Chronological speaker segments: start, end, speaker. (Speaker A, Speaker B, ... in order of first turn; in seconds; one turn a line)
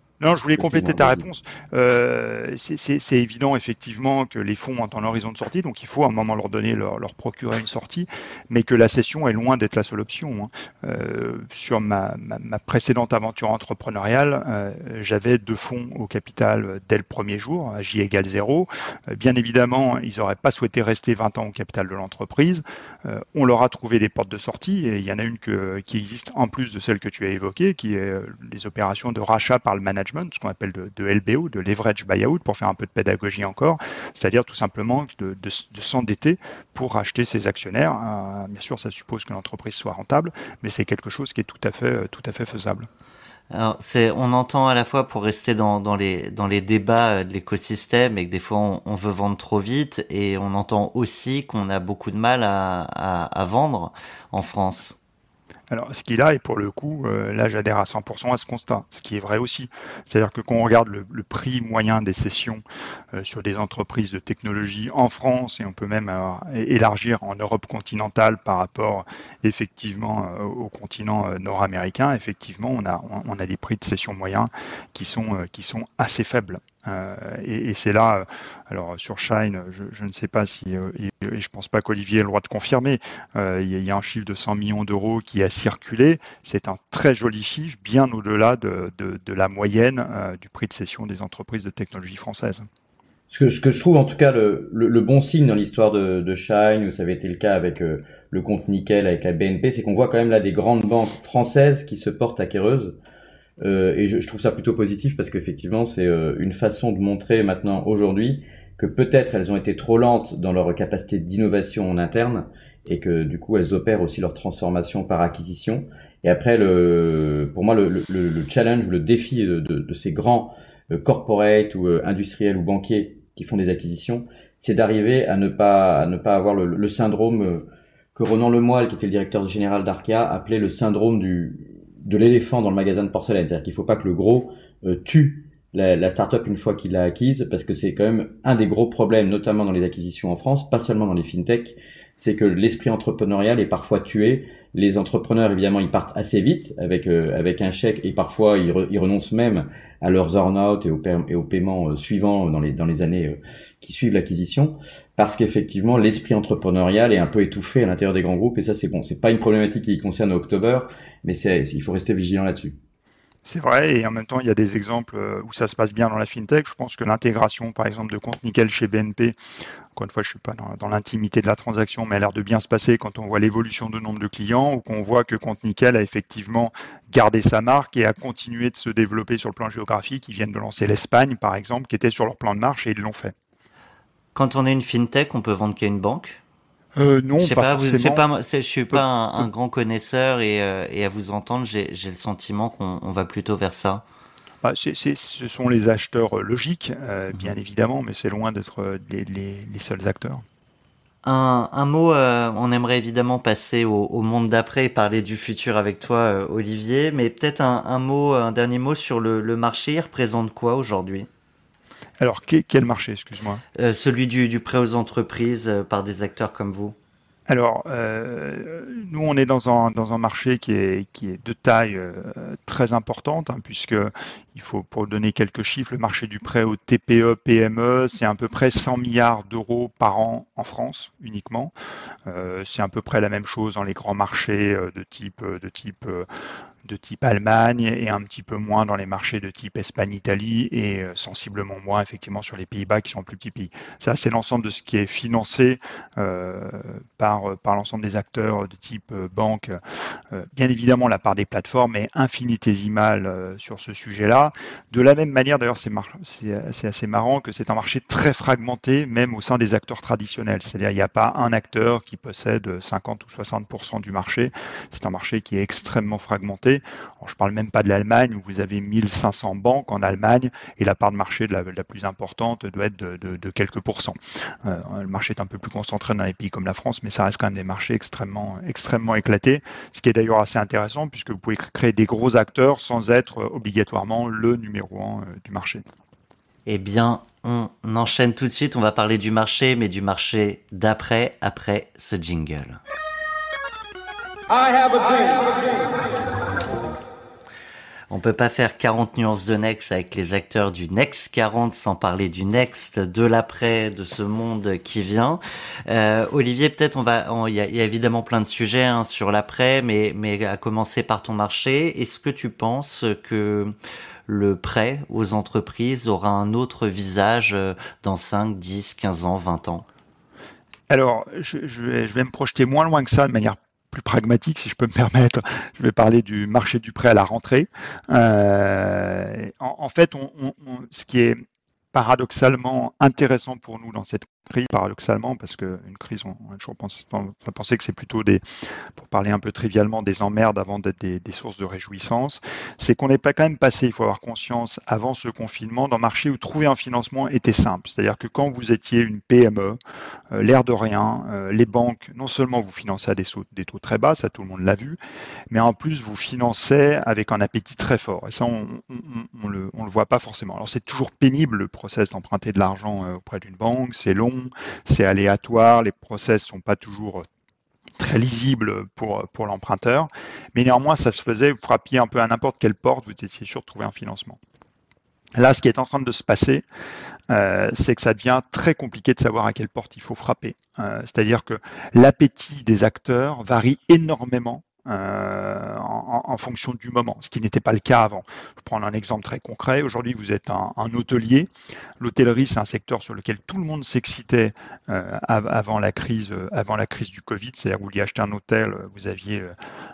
Speaker A: 0.2-42.9
Speaker B: 0.5-1.3
Speaker C: 43.5-55.0
Speaker A: 55.7-62.6
Speaker A: 63.1-92.7
Speaker B: 93.3-103.0
Speaker B: 103.6-162.8
Speaker A: 163.4-169.3
Speaker A: 169.9-183.3
Speaker C: 184.3-186.4
Speaker A: 186.9-188.2
Speaker C: 187.4-194.0
Speaker A: 188.9-189.4
Speaker A: 194.6-200.4
Speaker C: 201.2-211.3
Speaker A: 212.2-213.6
Speaker C: 213.8-216.9
Speaker A: 217.5-231.7
Speaker A: 232.3-236.3
Speaker A: 236.8-249.8
Speaker A: 250.3-285.8
Speaker C: 286.6-292.8
Speaker C: 298.1-313.7
Speaker C: 314.3-319.9
Speaker A: 320.9-331.4
Speaker A: 331.9-338.4
Speaker A: 338.9-349.8
Speaker A: 350.3-355.0
Speaker A: 355.5-367.2
Speaker A: 368.0-374.4
Speaker A: 375.4-376.6
Speaker A: 377.3-391.5
Speaker A: 392.0-399.5